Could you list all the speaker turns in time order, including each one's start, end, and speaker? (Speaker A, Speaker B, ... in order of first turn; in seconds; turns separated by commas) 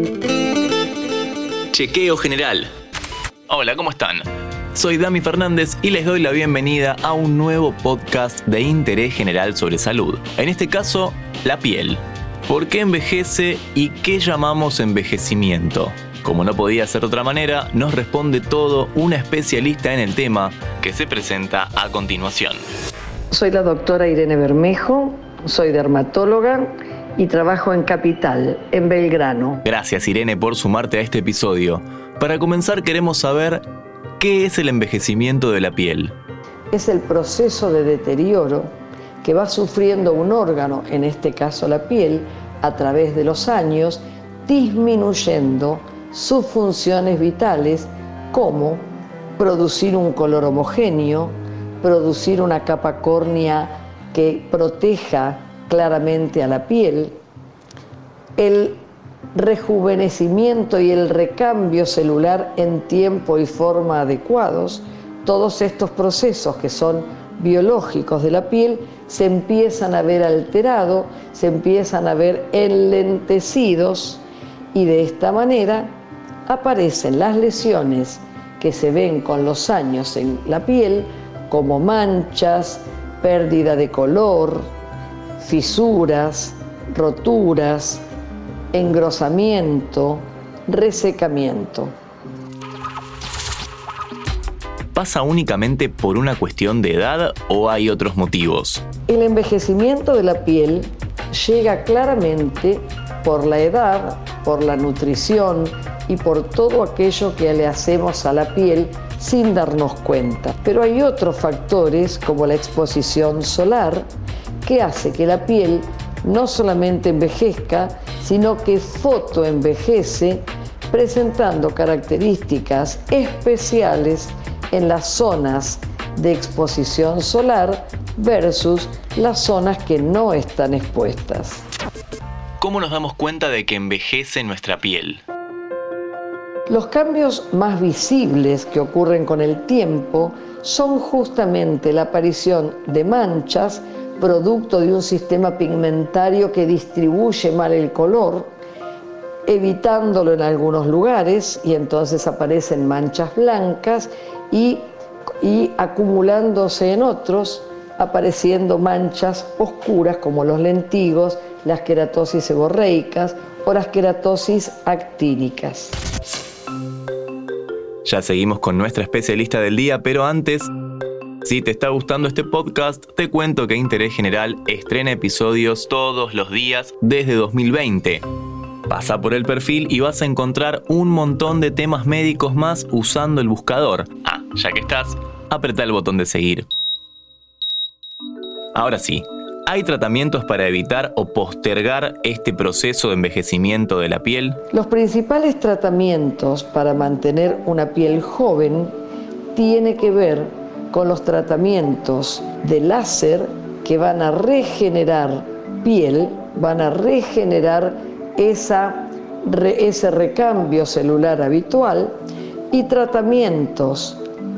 Speaker A: 1.7-2.7, Speaker A: 3.5-22.6, Speaker B: 23.3-29.6, Speaker A: 29.6-33.6, Speaker A: 34.2-36.1, Speaker B: 36.7-48.9, Speaker B: 49.4-57.2, Speaker B: 58.4-58.8, Speaker B: 59.3-74.2, Speaker B: 74.7-75.9, Speaker B: 76.5-84.7, Speaker B: 85.4-88.0, Speaker B: 88.7-91.9, Speaker A: 94.9-98.8, Speaker B: 99.1-114.1, Speaker B: 114.6-131.7, Speaker A: 132.6-135.2, Speaker B: 136.7-148.5, Speaker B: 149.5-154.8, Speaker B: 155.4-166.0, Speaker A: 168.0-170.7, Speaker A: 171.4-178.2, Speaker A: 178.9-186.7, Speaker A: 188.7-194.6, Speaker B: 194.7-198.9, Speaker B: 199.5-212.1, Speaker B: 212.7-214.2